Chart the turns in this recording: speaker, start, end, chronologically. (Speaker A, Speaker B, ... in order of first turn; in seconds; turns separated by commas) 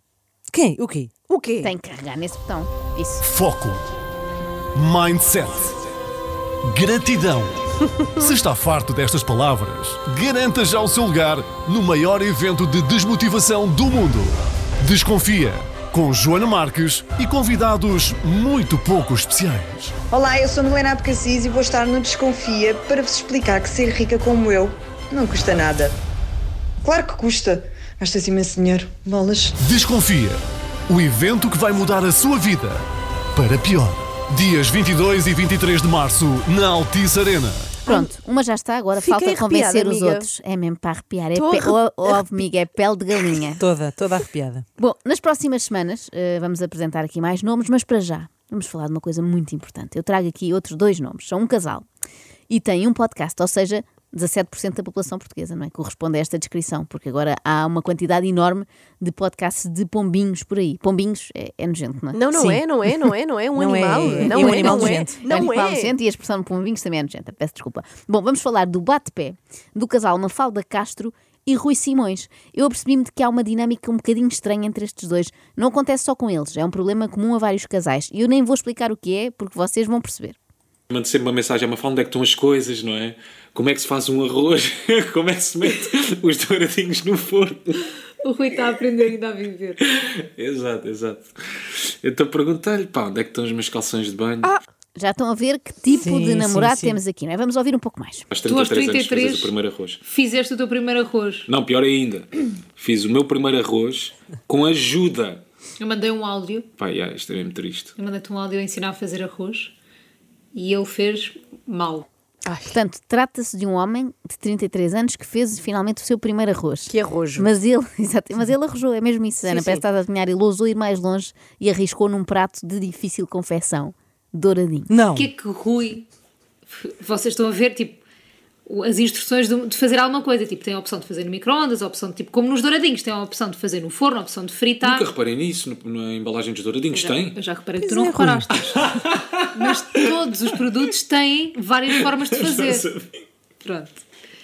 Speaker A: 0.5-1.1, Speaker B: 1.3-1.7, Speaker C: 1.6-3.2, Speaker D: 3.2-3.8, Speaker D: 4.7-5.7, Speaker D: 6.7-19.9, Speaker E: 20.1-25.9, Speaker E: 26.9-29.5, Speaker D: 29.6-37.7, Speaker B: 37.8-38.1, Speaker C: 37.9-43.6, Speaker B: 38.9-40.3, Speaker B: 41.3-42.5, Speaker A: 43.6-44.6, Speaker C: 44.8-51.8, Speaker C: 52.5-62.3, Speaker B: 62.1-66.0, Speaker A: 63.6-65.2, Speaker C: 64.1-80.3, Speaker F: 80.9-87.8, Speaker G: 88.2-89.8, Speaker F: 89.8-94.5, Speaker C: 95.0-98.2, Speaker A: 95.9-97.0, Speaker F: 98.3-100.0, Speaker G: 98.5-99.5, Speaker G: 100.0-101.5, Speaker F: 101.5-105.4, Speaker G: 105.8-106.7, Speaker F: 106.8-107.9, Speaker G: 108.0-109.7, Speaker G: 110.5-112.0, Speaker B: 112.4-112.8, Speaker C: 112.7-124.9, Speaker B: 116.8-117.5, Speaker G: 119.5-119.8, Speaker A: 124.9-125.3, Speaker G: 125.1-126.1, Speaker G: 126.7-128.0, Speaker G: 128.7-135.1, Speaker F: 134.8-137.4, Speaker G: 136.9-138.9, Speaker A: 137.8-138.4, Speaker F: 138.9-139.4, Speaker G: 139.5-142.8, Speaker F: 142.2-143.1, Speaker G: 143.6-144.0